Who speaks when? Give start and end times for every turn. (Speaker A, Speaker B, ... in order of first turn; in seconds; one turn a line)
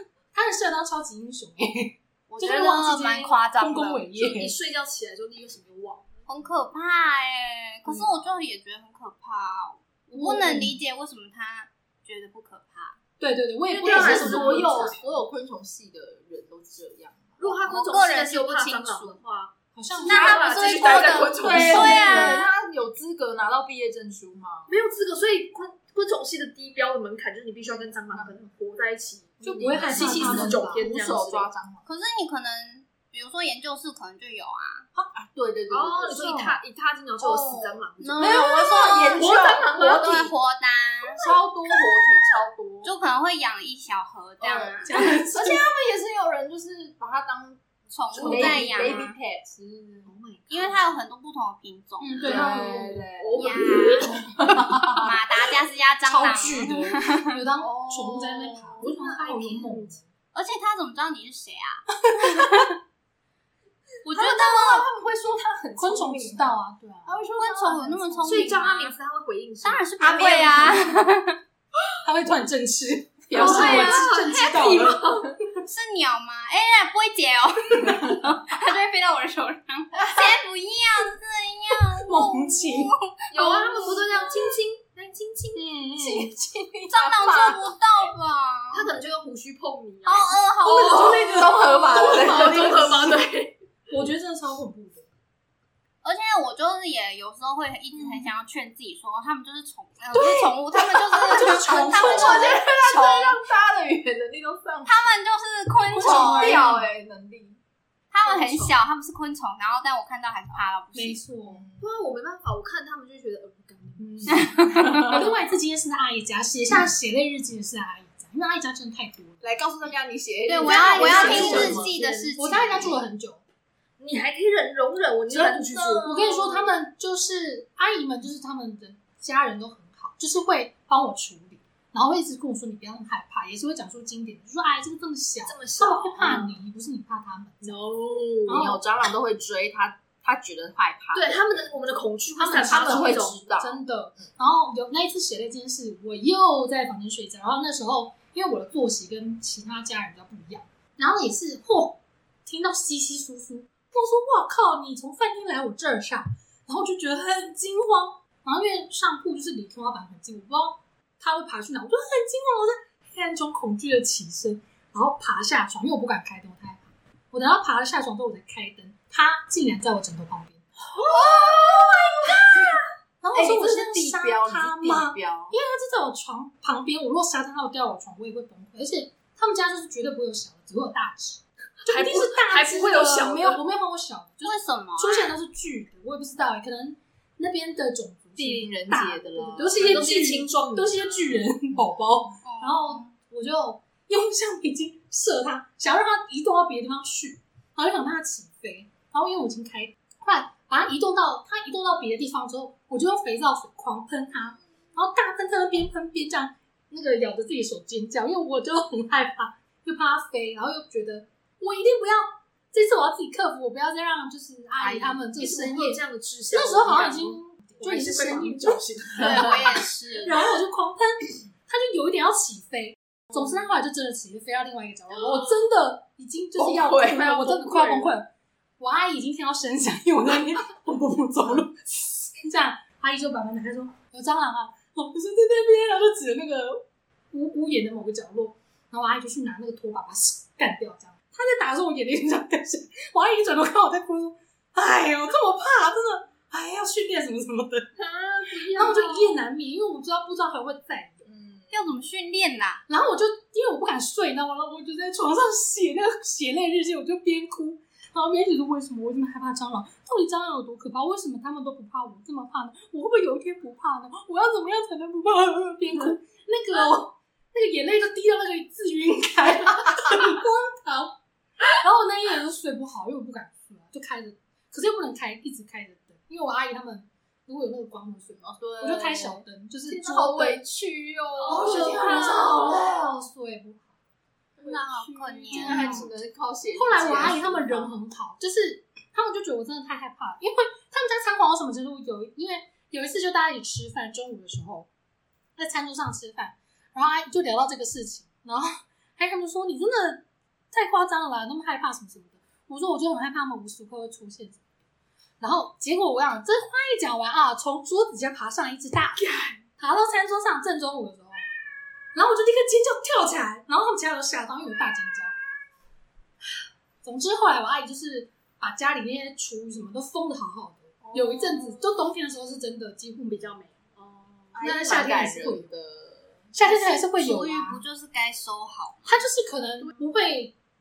Speaker A: 0.3-4.5
Speaker B: 2.3-4.0
Speaker C: 4.1-6.2
Speaker B: 6.3-13.0
Speaker A: 10.1-10.8
Speaker A: 13.2-15.0
Speaker C: 13.7-15.1
Speaker D: 13.8-17.6
Speaker C: 17.4-22.3
Speaker B: 17.5-19.2
Speaker A: 19.7-20.5
Speaker B: 20.0-22.5
Speaker D: 20.2-24.7
Speaker A: 21.4-22.4
Speaker C: 24.7-31.5
Speaker D: 27.6-28.3
Speaker D: 29.4-31.9
Speaker A: 29.4-30.8
Speaker B: 31.9-34.9
Speaker D: 35.1-36.5
Speaker C: 35.7-38.5
Speaker D: 37.2-40.1
Speaker B: 37.6-41.2
Speaker C: 39.1-40.3
Speaker D: 41.1-42.9
Speaker B: 42.8-44.9
Speaker D: 44.4-47.6
Speaker A: 44.8-45.6
Speaker B: 47.9-49.2
Speaker D: 48.1-50.1
Speaker C: 48.1-48.9
Speaker A: 48.2-48.9
Speaker C: 50.0-51.0
Speaker B: 50.5-52.3
Speaker A: 52.0-53.0
Speaker D: 52.2-55.1
Speaker C: 52.2-54.2
Speaker B: 53.4-54.1
Speaker A: 54.1-55.0
Speaker B: 54.9-57.3
Speaker A: 56.0-60.0
Speaker D: 57.6-58.8
Speaker C: 58.8-60.0
Speaker B: 60.3-62.7
Speaker A: 61.9-62.7
Speaker A: 64.0-64.9
Speaker D: 64.1-68.6
Speaker A: 65.8-67.2
Speaker B: 67.3-69.0
Speaker C: 68.3-70.7
Speaker B: 69.6-71.4
Speaker A: 70.1-70.8
Speaker D: 70.2-70.6
Speaker A: 72.0-75.1
Speaker D: 73.3-74.1
Speaker C: 73.3-75.5
Speaker B: 75.7-84.0
Speaker D: 79.9-80.4
Speaker A: 82.0-83.0
Speaker C: 83.3-85.7
Speaker A: 85.5-86.3
Speaker D: 86.0-87.7
Speaker B: 86.9-88.9
Speaker C: 88.7-93.6
Speaker B: 90.0-91.2
Speaker A: 90.6-93.2
Speaker D: 90.7-92.9
Speaker A: 93.9-95.1
Speaker B: 96.0-103.4
Speaker D: 100.1-105.2
Speaker A: 101.3-102.6
Speaker B: 104.8-106.6
Speaker A: 105.9-106.9
Speaker D: 106.0-107.6
Speaker B: 108.1-111.2
Speaker D: 108.2-108.7
Speaker A: 110.9-111.6
Speaker D: 111.5-111.8
Speaker C: 111.8-115.3
Speaker A: 114.0-119.4
Speaker B: 114.3-115.1
Speaker D: 119.4-122.6
Speaker B: 120.5-122.9
Speaker A: 120.6-123.4
Speaker C: 120.7-121.9
Speaker C: 124.0-126.6
Speaker D: 125.3-126.5
Speaker A: 126.0-137.8
Speaker C: 135.5-136.6
Speaker C: 137.6-138.7
Speaker A: 138.4-138.8
Speaker D: 138.5-141.4
Speaker C: 141.1-143.6
Speaker A: 142.4-170.7
Speaker D: 142.6-143.8
Speaker D: 170.9-172.7
Speaker A: 172.2-247.9
Speaker D: 173.3-175.6
Speaker C: 181.8-183.6
Speaker B: 184.4-185.3
Speaker D: 188.4-190.1
Speaker C: 189.7-191.4
Speaker B: 192.4-193.1
Speaker C: 214.8-219.8
Speaker B: 219.2-220.3
Speaker D: 226.6-228.1
Speaker C: 247.9-249.4
Speaker A: 248.7-251.3
Speaker D: 251.2-251.7
Speaker B: 251.7-252.8
Speaker A: 252.9-271.2
Speaker A: 271.8-280.6
Speaker D: 278.4-282.9
Speaker C: 281.4-282.8
Speaker A: 281.4-283.9
Speaker D: 284.6-287.9
Speaker B: 284.6-286.1
Speaker A: 284.7-286.1
Speaker A: 286.7-294.9
Speaker A: 295.6-304.6
Speaker A: 305.4-311.5
Speaker C: 309.2-309.6
Speaker A: 312.1-315.4
Speaker A: 317.0-323.6
Speaker D: 321.0-321.8
Speaker C: 323.3-324.9
Speaker D: 324.5-326.4
Speaker A: 324.6-325.7
Speaker A: 326.5-327.8
Speaker B: 326.6-329.2
Speaker A: 329.1-330.5